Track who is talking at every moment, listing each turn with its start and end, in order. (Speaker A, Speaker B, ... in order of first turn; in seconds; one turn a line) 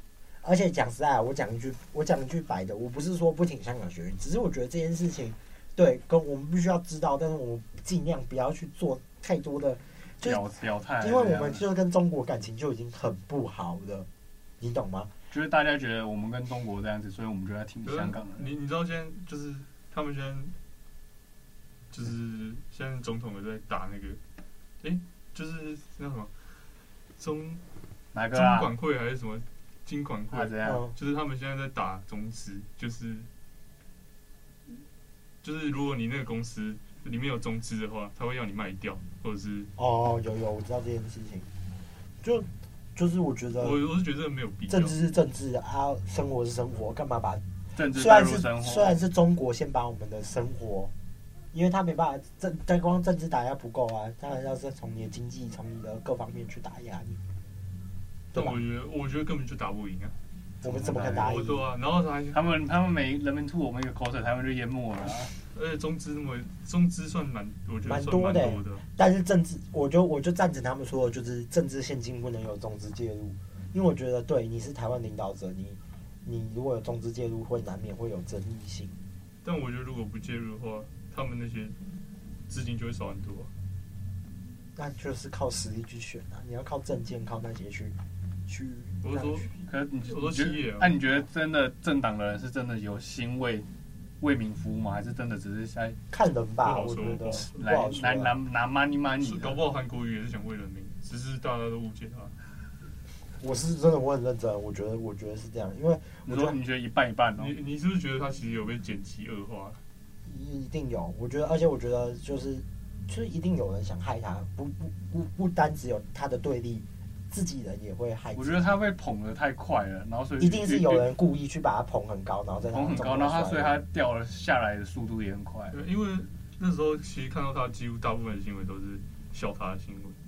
Speaker A: 0.4-10.4
Speaker B: 10.2-11.6
Speaker A: 11.0-14.1
Speaker A: 14.6-15.1
Speaker B: 15.3-18.5
Speaker C: 17.9-20.6
Speaker C: 21.9-24.2
Speaker C: 24.8-26.3
Speaker C: 27.2-27.6
Speaker B: 28.1-28.7
Speaker C: 28.3-33.3
Speaker B: 30.3-30.8
Speaker A: 30.6-30.9
Speaker C: 35.4-39.7
Speaker A: 39.8-41.5
Speaker A: 42.2-43.8
Speaker C: 43.6-45.0
Speaker A: 44.7-50.9
Speaker B: 47.7-49.0
Speaker A: 51.5-57.2
Speaker A: 58.3-58.6
Speaker C: 58.3-60.2
Speaker A: 60.6-61.6
Speaker C: 60.8-62.5
Speaker B: 62.3-65.3
Speaker C: 65.5-68.8
Speaker A: 67.8-79.0
Speaker C: 79.4-81.8
Speaker C: 82.5-83.5
Speaker A: 84.8-89.5
Speaker C: 89.0-89.5
Speaker B: 89.7-93.7
Speaker C: 90.0-91.0
Speaker B: 94.2-96.0
Speaker A: 96.1-98.4
Speaker C: 96.6-97.5
Speaker B: 97.5-99.6
Speaker C: 99.2-102.3
Speaker A: 103.4-106.6
Speaker B: 106.3-107.5
Speaker C: 107.4-109.8
Speaker A: 110.3-118.8
Speaker B: 118.3-121.1
Speaker A: 120.4-123.8
Speaker B: 122.7-125.8
Speaker C: 125.7-130.2